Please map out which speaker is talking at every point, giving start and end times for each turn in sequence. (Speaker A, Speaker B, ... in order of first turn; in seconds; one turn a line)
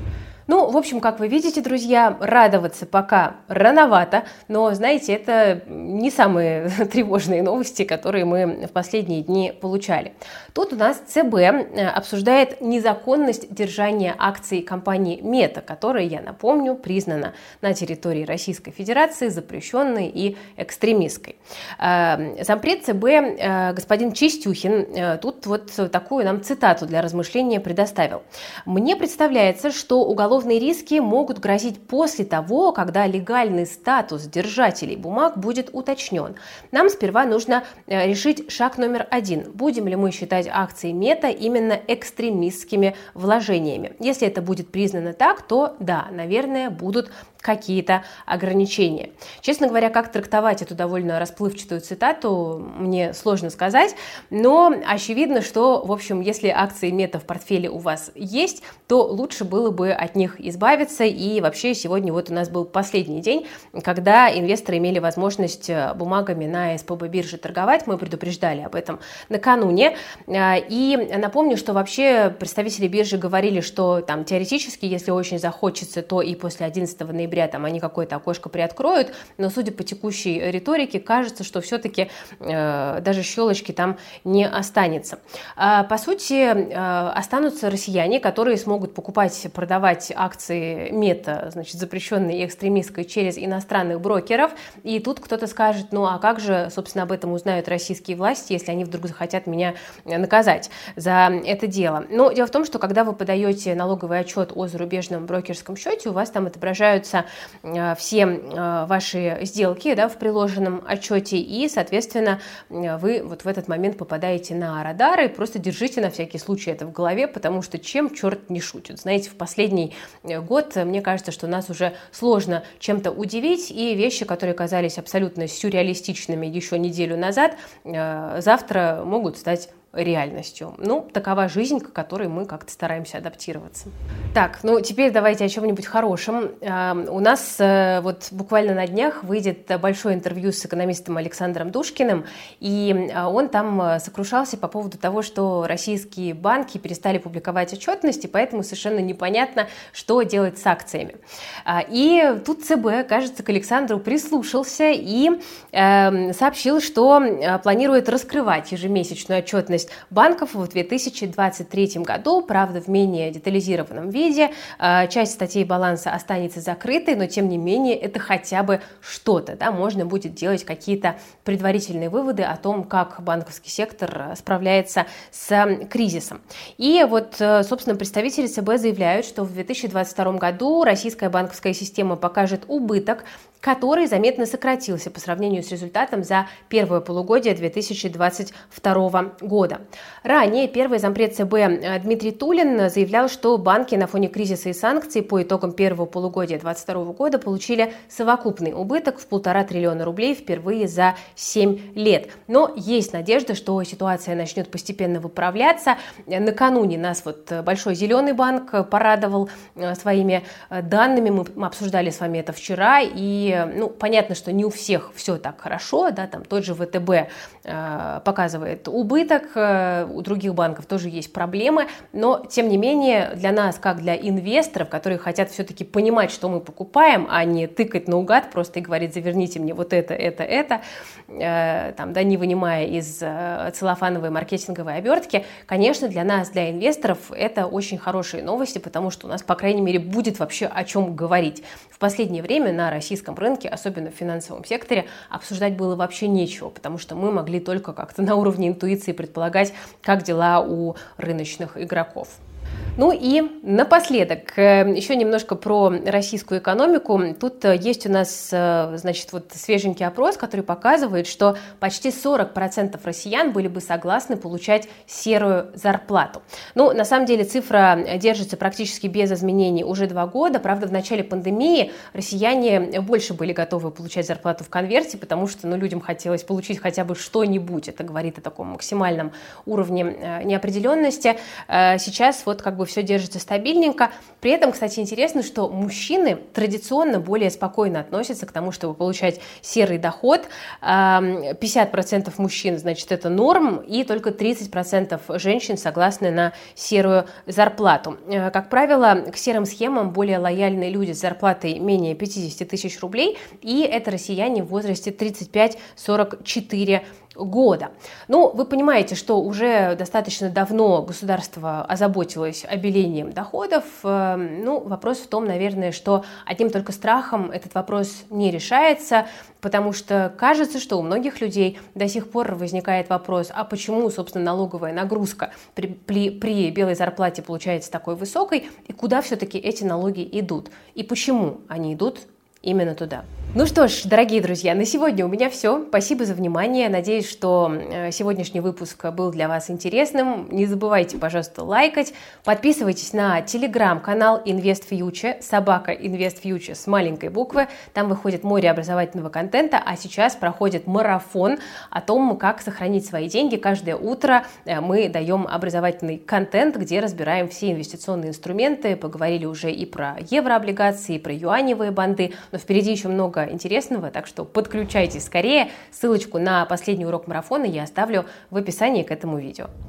Speaker A: 0.5-252.4
Speaker A: 253.0-369.7